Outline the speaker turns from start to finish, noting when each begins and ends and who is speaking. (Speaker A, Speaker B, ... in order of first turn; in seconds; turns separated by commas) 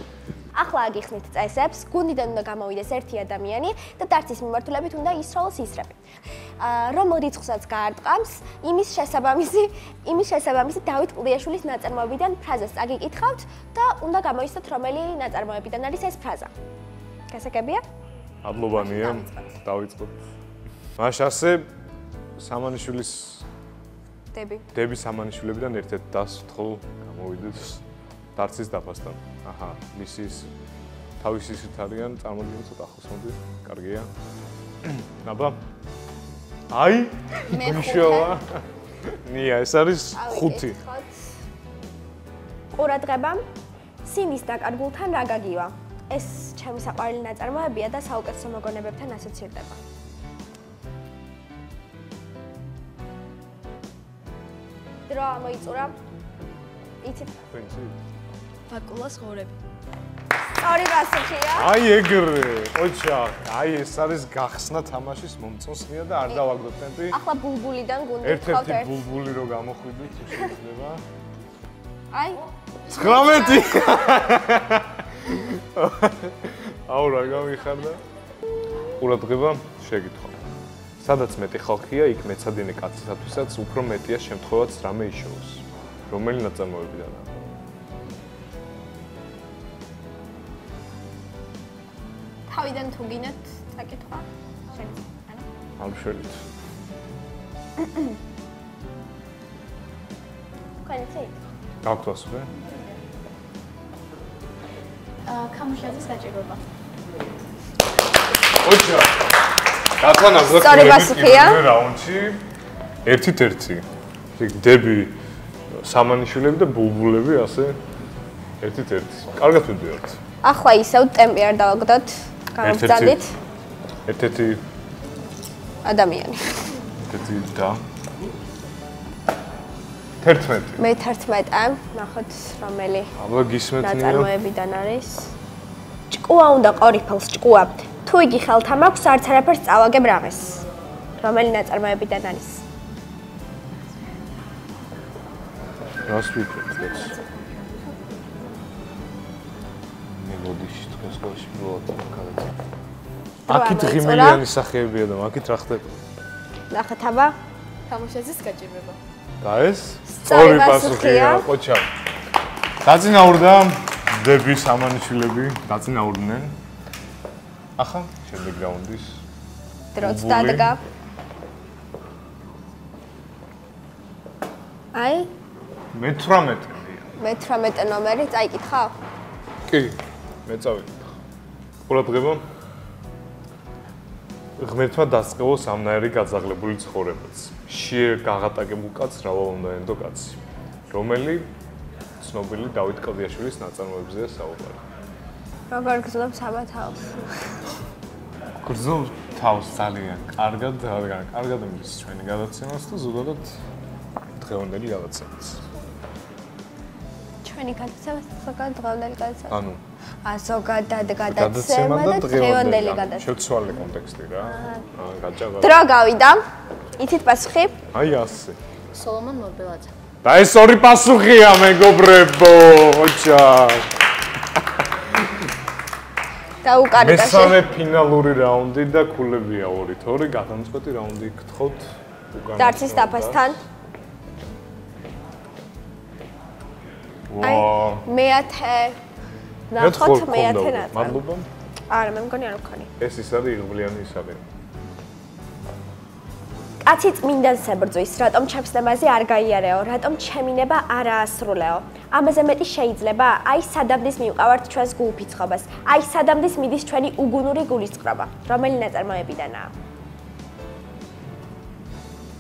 Speaker A: 0.5-6.0, Speaker A: 6.6-16.5, Speaker A: 17.3-17.8, Speaker B: 18.4-20.2, Speaker A: 18.7-19.6, Speaker B: 21.0-21.7, Speaker B: 22.4-23.4, Speaker A: 24.3-24.6, Speaker B: 24.7-27.8, Speaker B: 28.4-30.5, Speaker B: 31.2-34.1, Speaker B: 34.8-35.6, Speaker B: 36.7-40.8, Speaker A: 37.5-38.4, Speaker A: 40.1-41.2, Speaker A: 42.8-43.4, Speaker A: 44.0-49.8, Speaker A: 55.1-56.0, Speaker A: 57.0-57.4, Speaker B: 57.5-58.0, Speaker C: 58.7-59.6, Speaker A: 60.6-61.7, Speaker B: 61.6-67.2, Speaker A: 67.1-69.0, Speaker B: 68.2-71.0, Speaker A: 72.1-74.2, Speaker B: 72.9-78.0, Speaker B: 79.0-80.4, Speaker B: 81.0-87.3, Speaker A: 92.5-95.5, Speaker B: 95.8-96.4, Speaker A: 100.8-101.3, Speaker B: 101.8-102.5, Speaker C: 105.2-106.6, Speaker B: 108.5-109.1, Speaker B: 110.0-112.4, Speaker A: 110.5-111.7, Speaker B: 113.0-113.8, Speaker B: 114.4-115.1, Speaker B: 115.8-117.8, Speaker B: 118.6-120.2, Speaker A: 120.4-123.3, Speaker B: 122.6-123.2, Speaker B: 124.1-124.6, Speaker A: 125.8-126.8, Speaker B: 127.1-127.8, Speaker B: 130.2-130.8, Speaker A: 130.8-133.1, Speaker B: 133.2-134.3, Speaker A: 133.8-135.3, Speaker A: 136.1-140.7, Speaker A: 141.2-142.6, Speaker B: 146.1-147.2, Speaker C: 146.8-148.0, Speaker B: 150.2-152.5, Speaker A: 153.5-154.4, Speaker B: 153.5-156.0, Speaker A: 156.7-157.4, Speaker C: 157.9-159.0, Speaker B: 159.4-161.9, Speaker A: 160.1-161.5, Speaker B: 162.8-166.5, Speaker B: 167.8-169.2, Speaker A: 169.9-170.8, Speaker B: 170.0-170.8, Speaker A: 174.9-175.3, Speaker B: 175.9-177.1, Speaker A: 177.2-178.9, Speaker B: 179.7-181.1, Speaker B: 181.9-182.4, Speaker B: 184.6-190.4, Speaker B: 190.9-191.5, Speaker B: 192.2-194.8, Speaker A: 195.7-197.4, Speaker B: 198.6-203.5, Speaker B: 204.4-205.6, Speaker A: 207.4-209.6, Speaker B: 209.5-209.8, Speaker A: 210.2-213.3, Speaker B: 211.3-215.8, Speaker A: 215.6-216.4, Speaker A: 217.0-217.8, Speaker B: 217.9-218.6, Speaker C: 218.9-219.9, Speaker B: 220.2-223.9, Speaker A: 226.6-227.6, Speaker B: 227.0-233.6, Speaker A: 232.6-233.6, Speaker B: 237.3-238.1, Speaker A: 237.4-239.0, Speaker A: 239.7-241.2, Speaker B: 239.8-241.5, Speaker A: 241.9-242.9, Speaker B: 243.0-244.4, Speaker A: 246.8-259.7